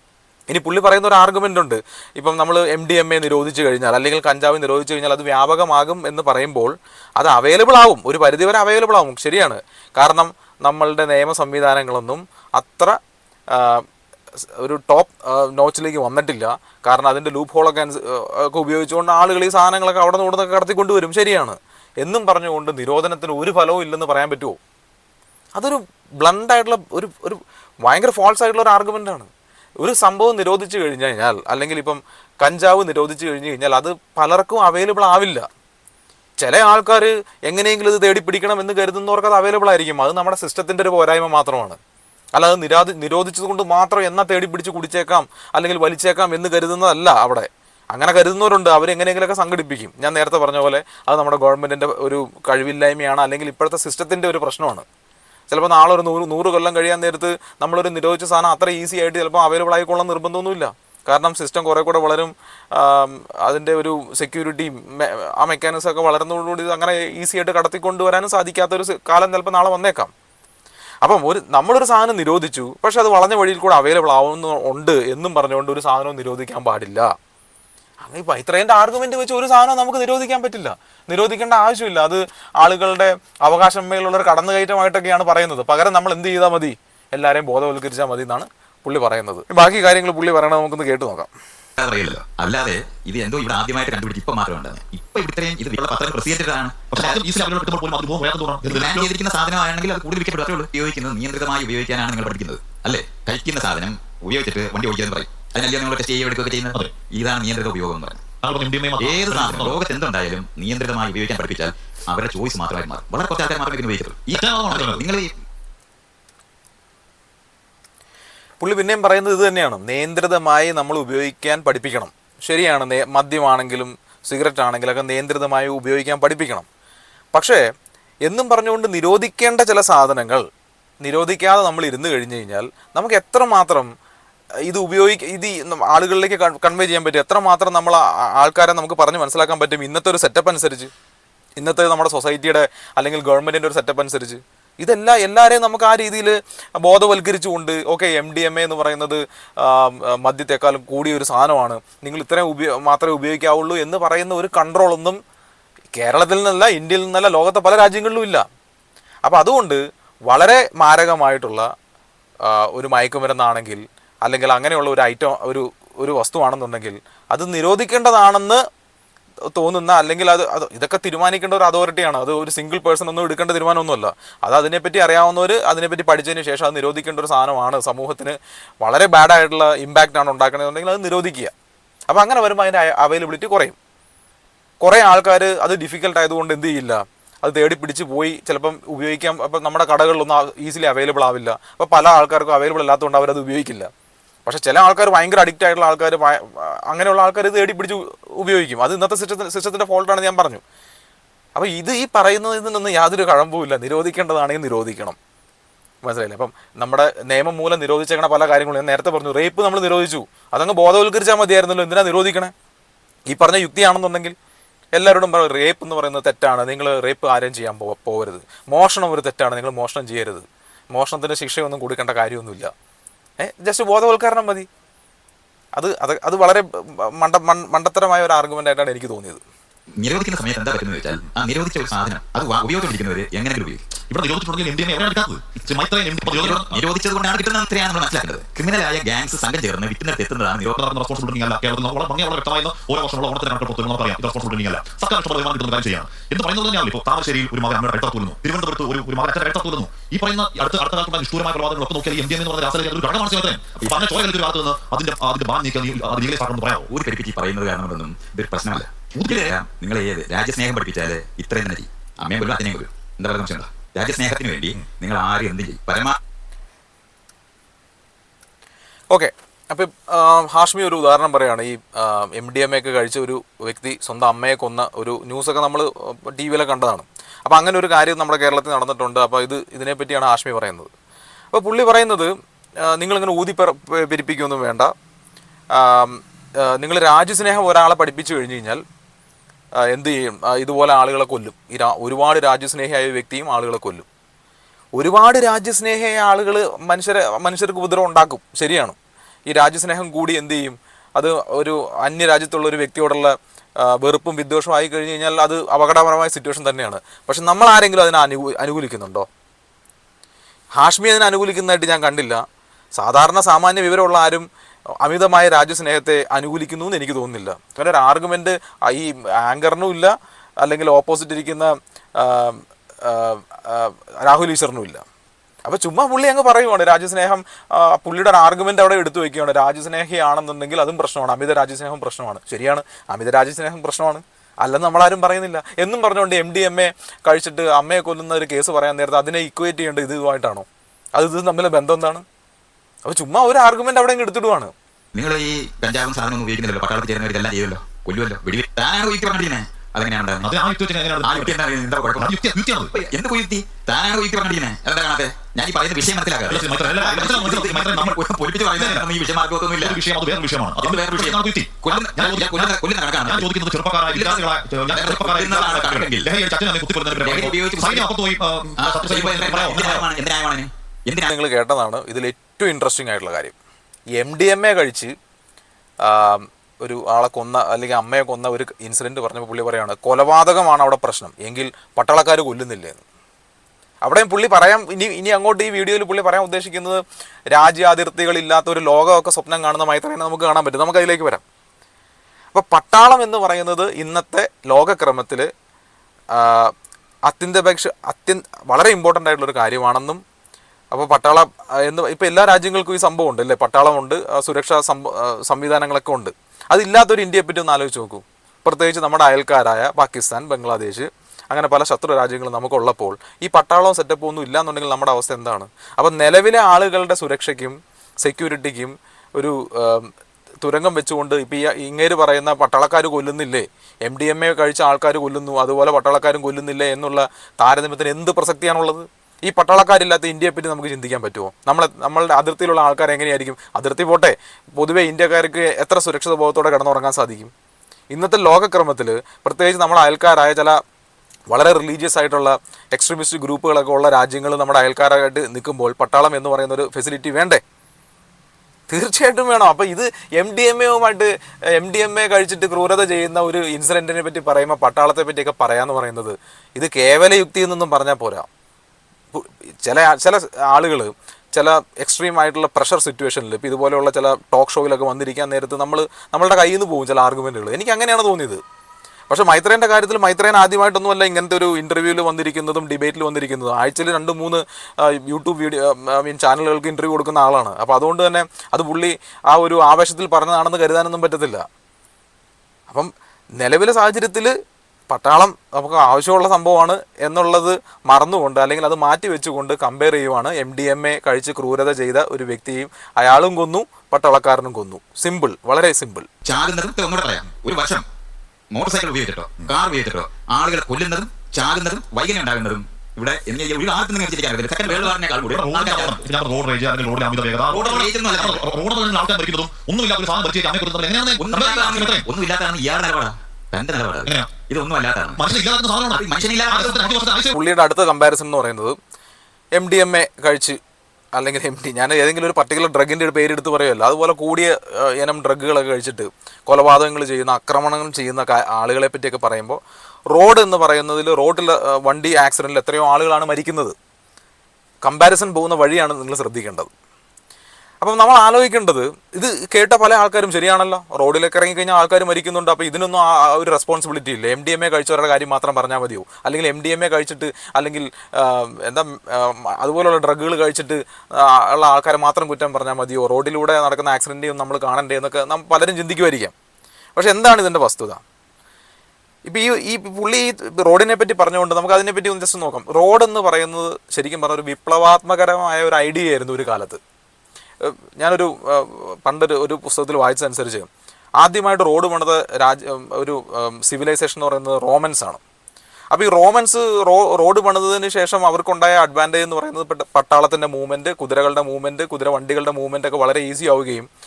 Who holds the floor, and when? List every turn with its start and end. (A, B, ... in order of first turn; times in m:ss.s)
0:00.5-0:13.0 A
0:13.5-0:13.8 A
0:14.6-0:24.6 A
0:25.6-0:35.5 A
0:36.4-0:41.8 A
0:42.4-0:54.8 A
0:55.5-1:10.1 A
1:11.0-1:17.1 A
1:18.0-1:31.3 A
1:31.8-1:37.2 B
1:36.9-1:39.1 C
1:38.7-1:48.2 B
1:48.4-1:49.8 C
1:49.0-1:55.3 B
1:54.3-1:55.0 C
1:58.6-2:06.6 A
2:07.3-2:07.6 A
2:08.2-2:10.4 A
2:11.0-2:13.9 A
2:14.7-2:20.9 A
2:21.6-2:35.2 A
2:35.9-2:38.4 A
2:39.2-2:41.7 A
2:42.4-2:48.6 A
2:49.5-3:01.5 A
3:02.1-3:03.8 A
3:04.8-3:13.9 A
3:14.4-3:20.6 A
3:21.6-3:25.2 A
3:26.0-3:32.5 A
3:33.3-3:34.3 A
3:34.9-3:42.7 A
3:43.4-3:44.7 A
3:45.8-3:49.4 A
3:50.0-3:53.8 B
3:54.1-3:56.9 C
3:56.3-4:00.8 B
4:00.7-4:16.9 C
4:16.9-4:26.2 B
4:19.1-4:19.5 C
4:29.1-4:40.9 A
4:41.5-4:44.9 A
4:45.7-4:48.8 A
4:49.8-4:54.0 A
4:55.0-4:59.0 A
4:59.5-5:09.3 A
5:10.8-5:12.4 A
5:13.0-5:14.5 A
5:15.0-5:25.0 A
5:25.6-5:42.2 A
5:43.1-5:44.7 A
5:45.1-5:50.5 B
5:50.4-5:53.0 C
5:51.2-5:52.4 B
5:52.9-6:00.0 B
5:56.5-5:58.2 C
5:58.7-5:59.1 C
5:59.8-6:10.1 C
6:00.8-6:03.5 B
6:04.1-6:06.3 B
6:07.1-6:08.1 B
6:08.8-6:11.3 B
6:11.2-6:13.5 A
6:14.2-6:15.1 A
6:16.0-6:23.0 A
6:24.0-6:31.4 A
6:32.5-6:35.5 A
6:36.3-6:36.7 A
6:37.3-6:40.2 A
6:40.9-7:00.1 A
7:00.6-7:17.5 A
7:18.1-7:20.8 A
7:21.5-7:27.6 A
7:28.9-7:38.5 A
7:39.3-7:48.6 A
7:49.3-8:01.6 A
8:02.9-8:04.5 A
8:05.1-8:16.3 A
8:16.4-8:18.0 B
8:18.7-8:26.2 B
8:24.8-8:32.3 C
8:27.7-8:28.6 B
8:31.4-8:35.4 B
8:34.2-8:34.5 C
8:35.4-8:37.6 C
8:36.1-8:37.1 B
8:37.5-8:39.0 A
8:39.8-8:40.8 A
8:41.4-8:53.9 A
8:55.0-8:56.9 A
8:58.0-9:16.5 A
9:17.2-9:18.2 A
9:19.5-9:27.0 A
9:27.8-9:30.9 A
9:31.4-9:35.4 A
9:36.1-9:44.1 A